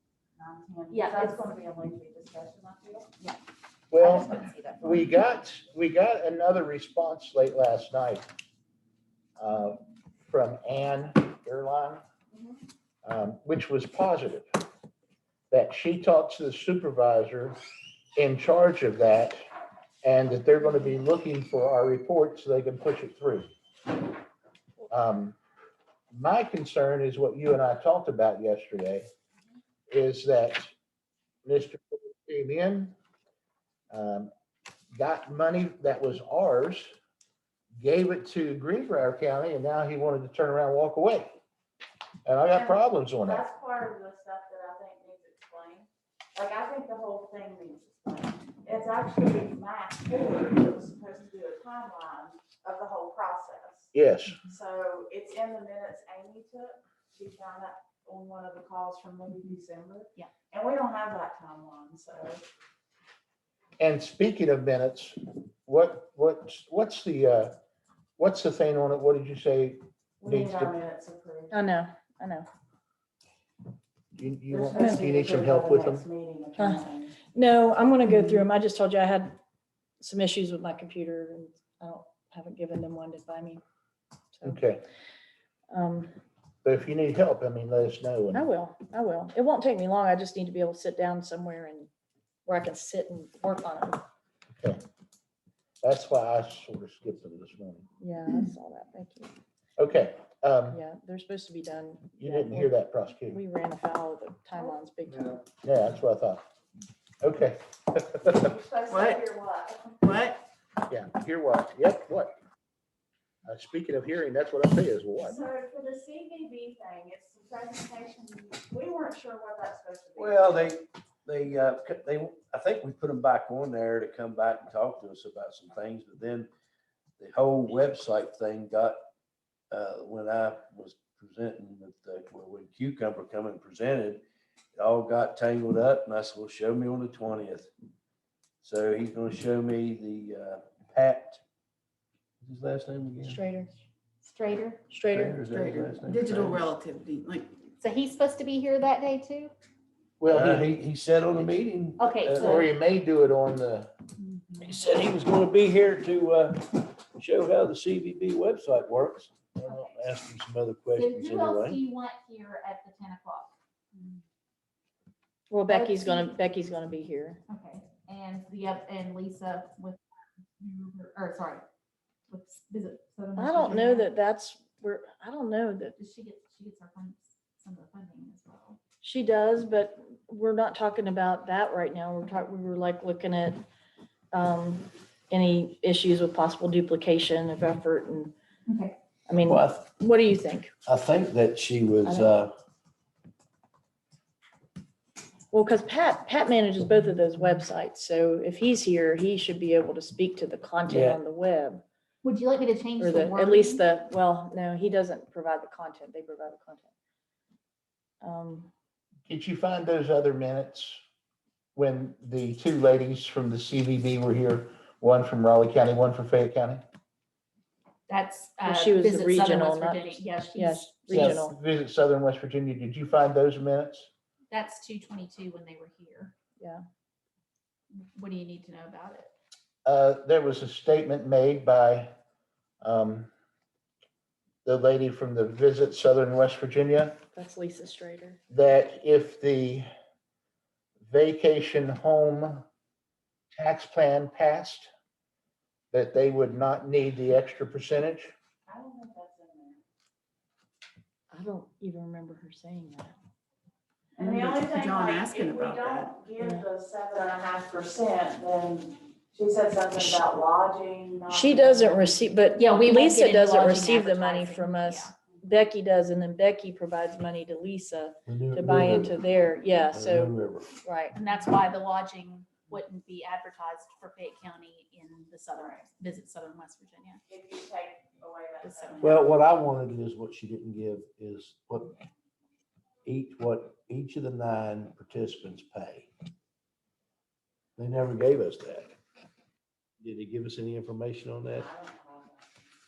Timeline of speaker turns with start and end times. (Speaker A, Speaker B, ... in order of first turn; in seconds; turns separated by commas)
Speaker A: 0.3-3.1, Speaker B: 0.9-1.5, Speaker C: 3.9-8.2, Speaker B: 4.0-5.0, Speaker C: 9.4-12.0, Speaker A: 12.3-12.6, Speaker C: 13.0-14.5, Speaker C: 15.5-17.6, Speaker C: 18.1-19.5, Speaker C: 20.0-23.5, Speaker C: 24.9-25.4, Speaker C: 26.1-29.1, Speaker C: 29.9-30.7, Speaker C: 31.4-32.9, Speaker C: 33.9-34.3, Speaker C: 34.9-36.9, Speaker C: 37.8-41.4, Speaker C: 42.2-43.4, Speaker A: 42.5-53.9, Speaker C: 53.9-54.4, Speaker A: 54.4-62.4, Speaker C: 63.8-67.5, Speaker C: 68.2-70.7, Speaker A: 70.2-71.5, Speaker D: 71.5-72.5, Speaker C: 74.1-76.0, Speaker A: 74.5-77.2, Speaker D: 74.7-75.0, Speaker D: 77.3-79.4, Speaker D: 80.0-83.6, Speaker D: 84.3-84.6, Speaker C: 84.4-84.8, Speaker D: 85.7-86.1, Speaker C: 86.6-88.5, Speaker D: 88.3-91.9, Speaker D: 92.5-94.0, Speaker C: 95.8-97.8, Speaker D: 98.0-99.3, Speaker C: 99.8-100.8, Speaker D: 100.7-105.4, Speaker C: 102.2-103.4, Speaker C: 105.6-106.4, Speaker C: 107.2-108.5, Speaker A: 108.3-110.2, Speaker E: 108.9-109.2, Speaker E: 110.0-110.4, Speaker C: 110.9-112.3, Speaker C: 113.4-115.4, Speaker A: 115.2-120.7, Speaker F: 120.2-126.5, Speaker F: 127.2-129.0, Speaker F: 129.7-134.2, Speaker F: 134.7-137.7, Speaker F: 138.6-141.4, Speaker F: 142.4-143.4, Speaker D: 143.2-143.7, Speaker B: 144.2-144.8, Speaker D: 144.9-146.0, Speaker F: 145.1-146.7, Speaker E: 146.1-147.5, Speaker B: 147.8-149.5, Speaker C: 150.2-150.7, Speaker F: 150.2-152.6, Speaker B: 152.0-152.7, Speaker C: 152.3-153.9, Speaker F: 154.6-161.8, Speaker B: 159.6-160.0, Speaker B: 160.9-163.5, Speaker D: 165.5-167.4, Speaker B: 165.7-166.3, Speaker B: 167.5-170.0, Speaker B: 170.6-171.6, Speaker B: 172.3-174.1, Speaker D: 173.4-175.9, Speaker B: 176.0-178.8, Speaker D: 179.0-183.6, Speaker D: 184.3-188.3, Speaker B: 188.7-188.9, Speaker D: 189.3-190.7, Speaker F: 189.4-189.8, Speaker F: 190.8-192.5, Speaker D: 192.0-192.3, Speaker D: 195.5-201.8, Speaker F: 200.8-201.2, Speaker B: 202.2-203.8, Speaker D: 203.0-206.9, Speaker D: 208.2-208.7, Speaker C: 209.3-211.0, Speaker C: 211.7-216.8, Speaker B: 218.1-221.3, Speaker D: 218.6-221.6, Speaker C: 221.1-224.1, Speaker B: 224.5-226.3, Speaker D: 226.6-226.8, Speaker B: 227.9-229.3, Speaker C: 229.8-232.1, Speaker C: 232.8-233.3, Speaker C: 234.6-237.2, Speaker D: 237.3-238.4, Speaker C: 238.5-239.8, Speaker C: 241.1-242.6, Speaker C: 243.5-244.9, Speaker C: 245.9-248.3, Speaker A: 248.7-249.8, Speaker D: 251.3-253.1, Speaker A: 254.2-262.3, Speaker E: 254.2-256.1, Speaker D: 256.4-256.7, Speaker D: 261.3-271.1, Speaker B: 262.6-265.1, Speaker F: 268.3-269.2, Speaker F: 269.9-270.7, Speaker B: 271.1-277.2, Speaker A: 275.5-275.8, Speaker A: 277.3-279.4, Speaker B: 278.6-279.1, Speaker F: 279.0-282.0, Speaker F: 283.0-286.1, Speaker F: 287.8-288.9, Speaker F: 290.0-291.7, Speaker A: 291.5-292.6